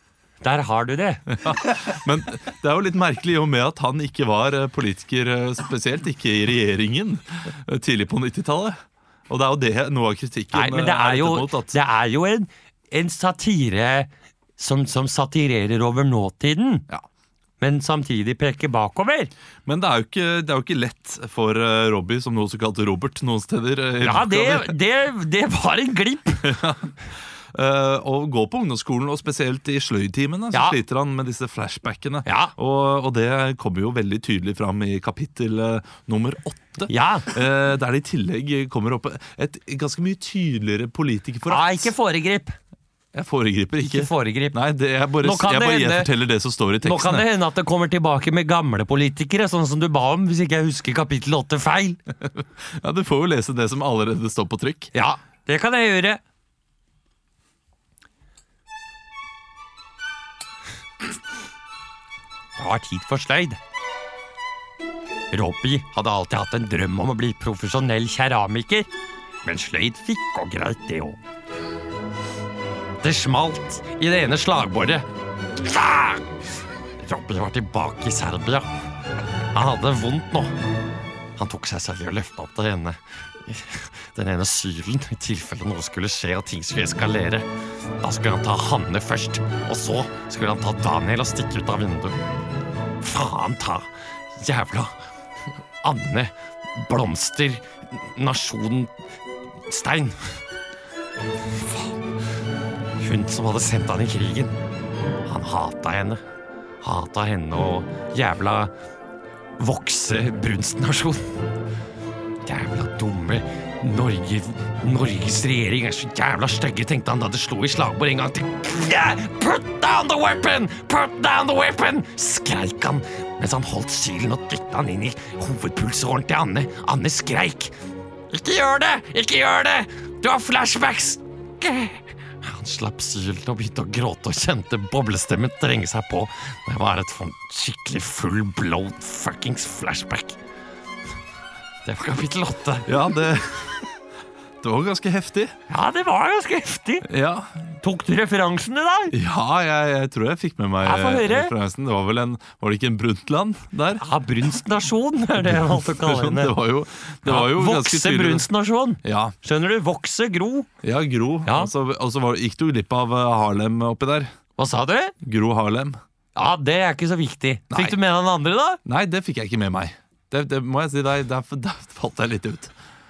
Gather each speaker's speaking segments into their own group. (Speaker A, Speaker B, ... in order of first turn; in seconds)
Speaker A: 0.4-1.3, 10.5-16.9, 17.6-19.3, 24.0-26.5, 30.5-30.8, 32.2-32.5, 36.9-37.3, 41.5-42.6, 43.8-44.6, 45.2-46.1, 46.8-52.0, 54.9-56.2, 62.6-63.6, 65.3-68.9, 69.4-71.2, 73.0-75.1, 75.6-76.3, 77.0-78.7, 79.5-80.5, 81.4-87.5, 88.0-92.2, 93.0-95.0, 95.8-98.9, 99.7-100.4, 103.0-104.6, 105.2-106.2, 106.8-108.7, 109.6-111.3, 112.4-127.7, 128.3-140.4, 141.8-143.1, 145.7-147.1, 147.8-149.1, 150.8-151.5, 154.0-156.6, 157.2-160.7, 161.4-161.7, 164.6-165.1, 166.3-168.8
Speaker B: 1.4-11.8, 19.6-24.8, 26.4-26.9, 27.5-41.9, 43.1-47.3, 52.2-54.9, 142.9-143.9, 144.6-145.5, 147.0-147.8, 149.1-154.1, 155.4-158.5, 159.0-159.3, 160.8-164.3, 165.2-166.0, 167.7-168.0, 168.8-172.7